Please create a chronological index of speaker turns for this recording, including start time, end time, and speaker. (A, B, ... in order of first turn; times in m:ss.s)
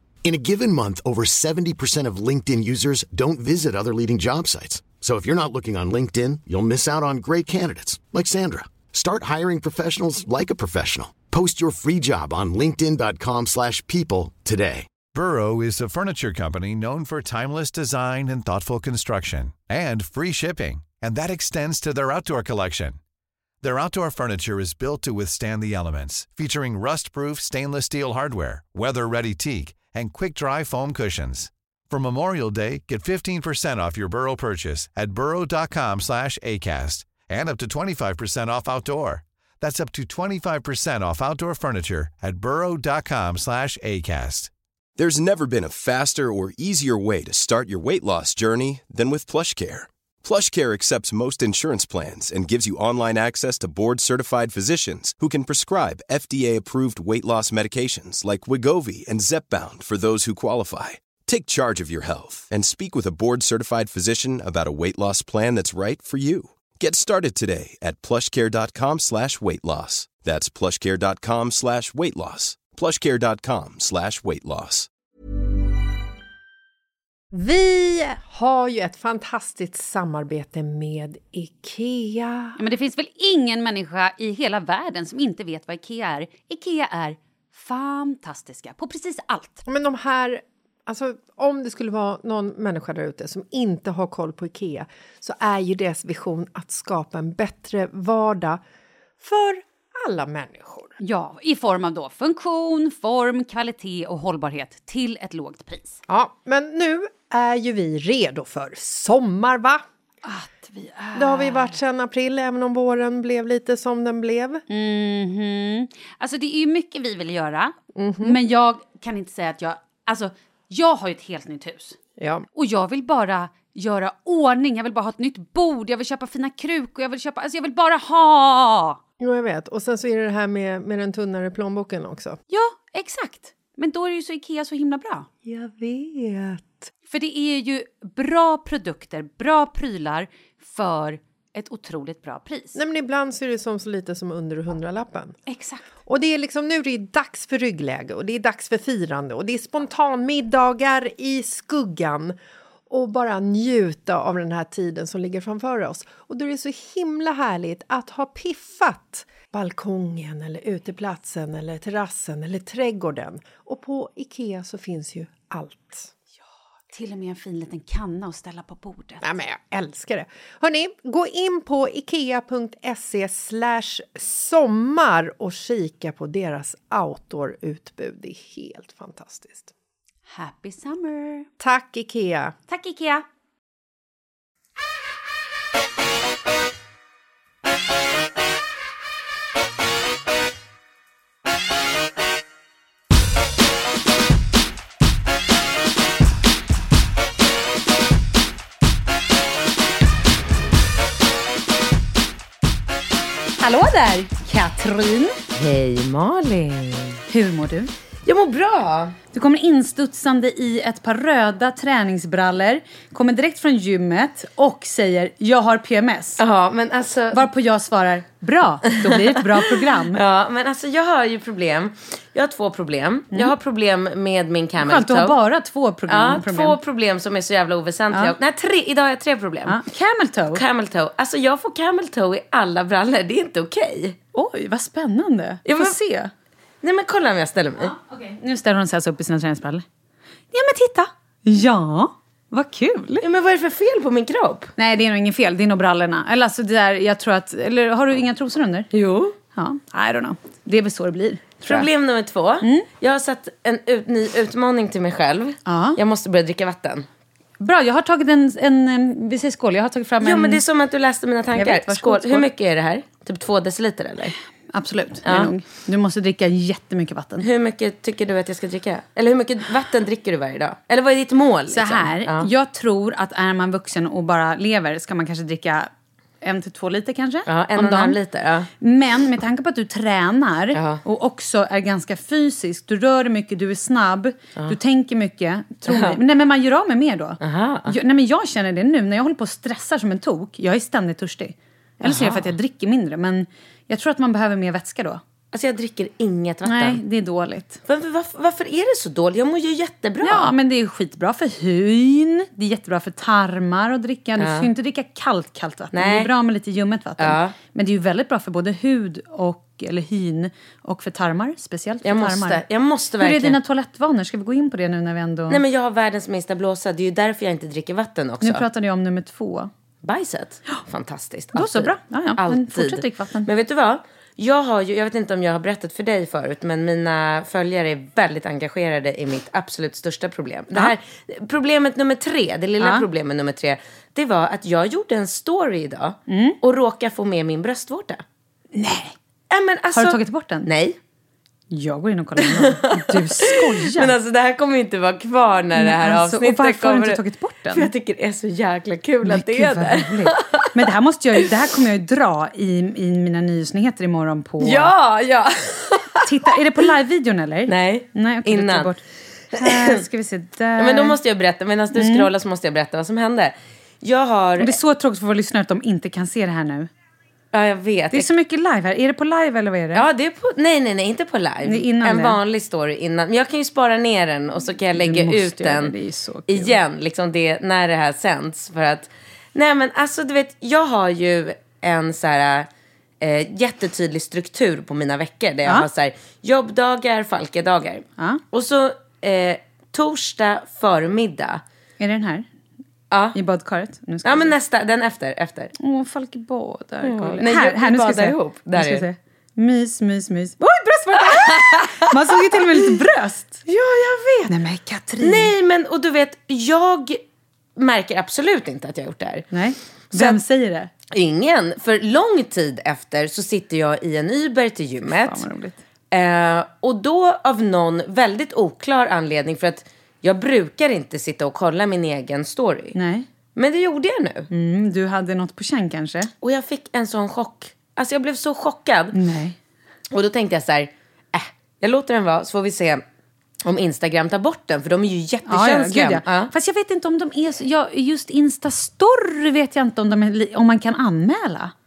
0:00.2-0:14.9 A
0:15.1-0:23.0 B
0:23.6-0:44.5 B
0:45.0-1:14.9 C
1:17.3-1:22.6 D
1:22.6-1:29.6 E
1:29.7-1:38.6 D
1:39.2-1:41.0 D
1:41.0-1:46.0 E
1:46.1-1:49.8 D
1:50.2-1:51.8 E
1:51.2-1:54.6 D
1:54.7-2:02.0 E
1:58.0-1:58.4 D
2:02.2-2:02.5 D
2:02.5-2:09.0 E
2:09.2-2:12.4 D
2:12.5-2:15.3 E
2:15.4-2:16.9 D
2:17.1-2:22.8 E
2:22.8-2:25.4 D
2:25.5-2:25.8 E
2:26.0-2:32.4 D
2:32.9-2:46.1 D
2:46.9-2:49.2 E
2:49.2-2:59.7 D
3:00.3-3:01.5 E
3:01.6-3:02.6 D
3:02.7-3:03.2 E
3:23.6-3:25.4 E
3:25.5-3:27.2 F
3:27.3-3:27.9 E
3:28.3-3:29.2 F
3:29.3-3:36.4 E
3:36.4-3:37.5 F
3:37.3-3:40.2 E
3:40.1-3:45.4 F
3:44.8-3:46.8 E
3:46.1-3:49.8 F
3:49.7-3:50.6 E
3:50.5-3:54.2 F
3:54.3-3:56.3 E
3:55.7-3:56.0 F
3:56.8-3:58.0 F
3:57.8-3:59.8 E
4:00.5-4:03.3 E
4:03.2-4:04.7 F
4:04.8-4:08.9 E
4:08.9-4:09.4 F
4:09.6-4:11.9 E
4:11.6-4:17.1 F
4:15.7-4:16.0 E
4:17.6-4:20.6 E
4:20.2-4:24.4 F
4:21.5-4:22.4 E
4:24.7-4:27.5 E
4:25.2-4:25.5 F
4:27.4-4:32.5 F
4:31.7-4:35.9 E
4:36.4-4:38.2 E
4:37.5-4:38.7 F
4:38.8-4:55.2 E
4:40.7-4:41.0 F
4:45.9-4:46.2 F
4:47.4-4:48.0 F
4:52.0-4:52.5 F
4:55.5-4:57.0 F
4:56.6-4:57.8 E
4:57.9-5:00.5 F
5:00.2-5:12.6 E
5:04.4-5:04.7 F
5:05.9-5:06.3 F
5:07.2-5:07.6 F
5:12.0-5:13.6 F
5:13.2-5:15.6 E
5:15.5-5:18.6 F
5:18.4-5:19.7 E
5:20.0-5:38.2 F
5:21.5-5:23.5 E
5:32.8-5:33.0 E
5:36.3-5:36.6 E
5:38.8-5:39.2 E
5:39.5-5:41.0 F
5:39.9-5:40.7 E
5:41.7-5:44.1 E
5:42.4-5:47.2 F
5:45.8-5:47.9 E
5:47.7-5:50.7 F
5:49.2-5:54.9 E
5:54.6-5:56.3 F
5:56.2-5:59.0 E
5:57.7-5:58.9 F
5:59.5-6:00.0 F
5:59.5-6:01.2 E
6:00.8-6:04.8 F
6:02.0-6:02.3 E
6:04.6-6:06.9 E
6:07.5-6:08.3 F
6:08.1-6:10.0 E
6:09.9-6:16.0 F
6:11.6-6:12.4 E
6:15.0-6:16.8 E
6:16.5-6:22.7 F
6:23.2-6:31.6 F
6:32.0-6:32.5 E
6:33.1-6:33.4 F
6:33.3-6:34.5 E
6:34.2-6:35.7 F
6:35.8-6:43.6 E
6:37.0-6:39.1 F
6:41.3-6:42.1 F
6:43.7-6:44.5 F
6:44.5-6:45.5 E
6:45.2-6:47.2 F
6:47.8-6:49.5 F
6:49.5-6:50.9 E
6:50.1-6:50.4 F
6:51.1-6:55.4 F
6:55.2-6:55.8 E
6:56.1-7:03.0 F
7:03.0-7:03.3 E
7:03.6-7:04.5 F
7:04.5-7:06.3 E
7:06.4-7:09.2 F
7:09.1-7:09.6 E
7:10.1-7:13.0 F
7:13.6-7:16.5 F
7:15.5-7:21.7 E